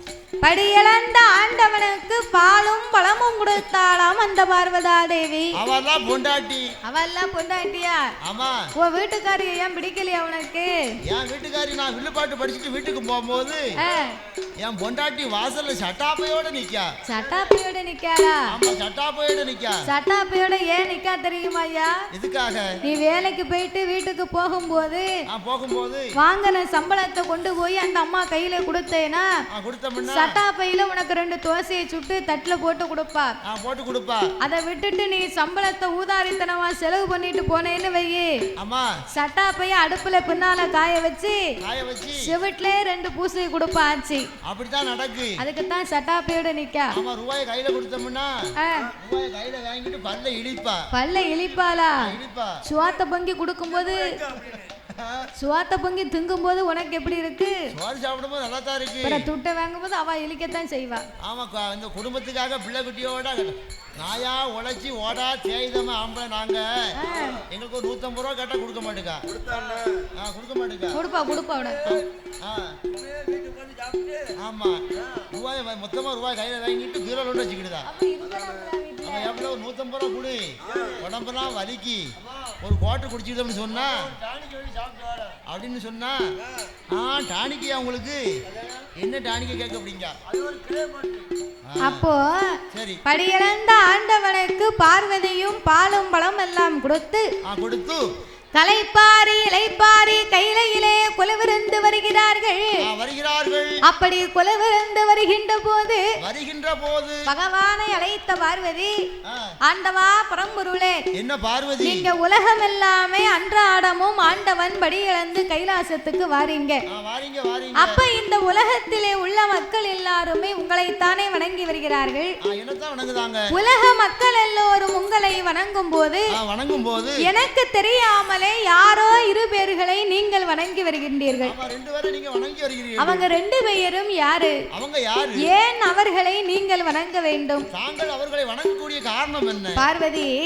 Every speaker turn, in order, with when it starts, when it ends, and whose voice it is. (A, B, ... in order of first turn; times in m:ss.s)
0:00.4-0:05.5 A
0:05.6-0:06.7 B
0:06.9-0:08.0 A
0:08.2-0:08.6 B
0:08.8-0:10.7 A
0:11.1-0:13.6 B
0:13.8-0:14.1 A
0:14.6-0:16.9 B
0:17.0-0:18.4 A
0:18.5-0:19.8 B
0:19.9-0:22.0 A
0:22.1-0:22.7 B
0:22.8-0:25.0 A
0:25.3-0:26.1 B
0:26.2-0:29.2 A
0:29.5-0:30.4 B
0:30.0-0:33.3 A
0:33.4-0:34.2 B
0:34.4-0:38.3 A
0:38.6-0:38.9 B
0:39.1-0:41.5 A
0:41.6-0:42.3 B
0:42.2-0:44.3 A
0:44.4-0:45.4 B
0:45.4-0:46.9 A
0:46.9-0:48.3 B
0:48.6-0:48.9 A
0:48.9-0:50.8 B
0:50.9-0:52.1 A
0:52.0-0:52.6 B
0:52.6-0:54.2 A
0:54.3-0:55.3 B
0:55.4-0:57.6 A
0:57.7-0:59.3 B
0:59.0-1:01.0 A
1:01.2-1:11.0 B
1:07.0-1:07.4 A
1:10.9-1:12.0 A
1:11.8-1:12.8 B
1:14.3-1:17.9 B
1:17.8-1:19.4 A
1:19.0-1:24.2 B
1:25.0-1:26.2 B
1:26.9-1:28.2 B
1:28.9-1:30.2 B
1:31.6-1:32.0 B
1:31.8-1:37.2 A
1:32.7-1:33.0 B
1:37.5-1:38.0 B
1:38.5-1:42.8 A
1:42.8-1:43.8 B
1:43.8-1:46.0 A
1:46.2-1:47.2 B
1:47.3-1:48.9 A
1:49.2-1:49.5 B
1:49.7-1:51.0 A
1:51.1-1:52.1 B
1:51.8-1:56.8 A
1:56.9-1:58.0 B
1:57.7-2:02.3 A
2:02.5-2:03.4 B
2:03.5-2:06.3 A
2:06.4-2:07.2 B
2:07.2-2:11.5 A
2:11.4-2:13.3 B
2:13.0-2:14.5 A
2:14.7-2:15.4 B
2:15.4-2:17.6 A
2:17.7-2:19.8 B
2:19.8-2:20.3 A